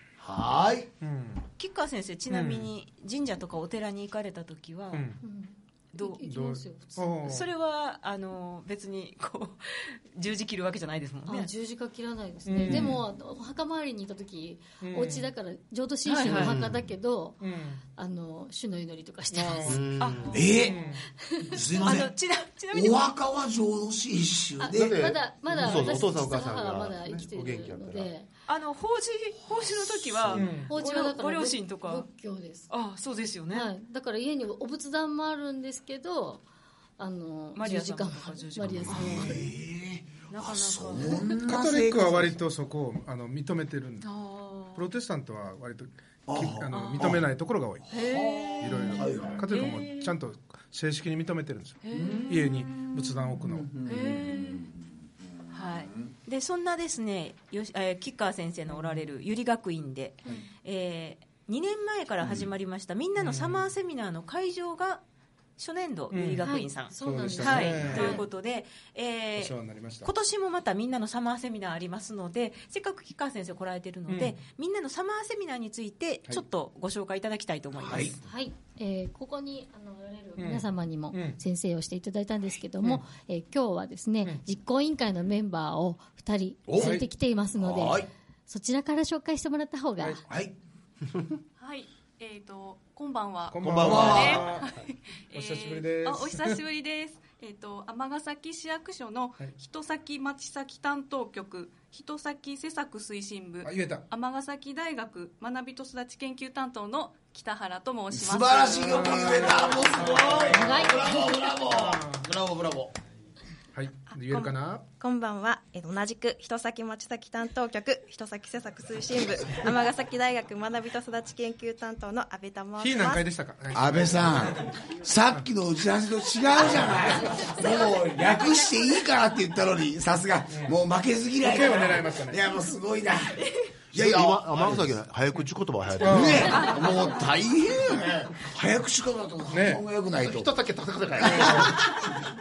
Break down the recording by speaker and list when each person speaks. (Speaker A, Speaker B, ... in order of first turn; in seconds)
Speaker A: 0.2-0.9, 20.3-20.8, 21.5-22.1, 22.7-25.2, 38.6-42.4, 46.3-47.3, 47.9-49.5, 51.9-52.4, 53.4-56.1, 77.8-78.2, 86.7-87.0, 87.5-88.1, 90.3-90.5, 93.8-94.5, 108.1-113.0, 123.7-135.0, 136.0-140.5, 141.2-142.1
Speaker B: 1.0-1.5, 2.3-2.7, 4.9-5.2, 7.0-7.5, 12.5-13.0, 14.8-15.3, 17.4-17.8, 19.3-19.8, 20.6-21.1, 30.3-30.7, 41.5-44.1, 44.8-47.9, 48.6-53.7, 58.7-59.0, 63.2-63.6, 66.1-68.2, 69.4-70.1, 74.1-74.4, 80.4-81.4, 86.8-87.0, 93.5-94.7, 95.3-96.6, 103.6-104.1, 108.9-110.4, 111.7-112.2, 113.7-114.8, 122.8-124.7, 130.5-130.8, 131.4-132.4, 136.0-136.7, 139.5-139.8, 141.3-141.7
Speaker C: 1.6-5.1, 5.9-6.6, 7.2-11.5, 16.1-16.6, 20.0-20.8, 21.8-23.1, 28.5-32.1, 32.7-33.7, 37.6-39.5, 40.3-41.5, 44.0-44.9, 46.7-47.1, 47.9-50.1, 51.8-53.3, 53.9-54.6, 55.5-65.0, 65.6-78.2
Speaker D: 5.2-7.1, 11.3-17.4, 18.0-19.8, 21.2-21.6, 24.6-28.3, 30.7-32.7, 33.5-36.4, 37.0-39.5, 66.4-68.2, 78.2-90.2, 110.3-111.3
Speaker E: 16.3-16.9, 19.7-20.5, 24.7-28.1, 93.6-94.5, 133.9-136.7, 140.2-141.8
Speaker F: 91.6-110.0
Speaker G: 114.1-123.3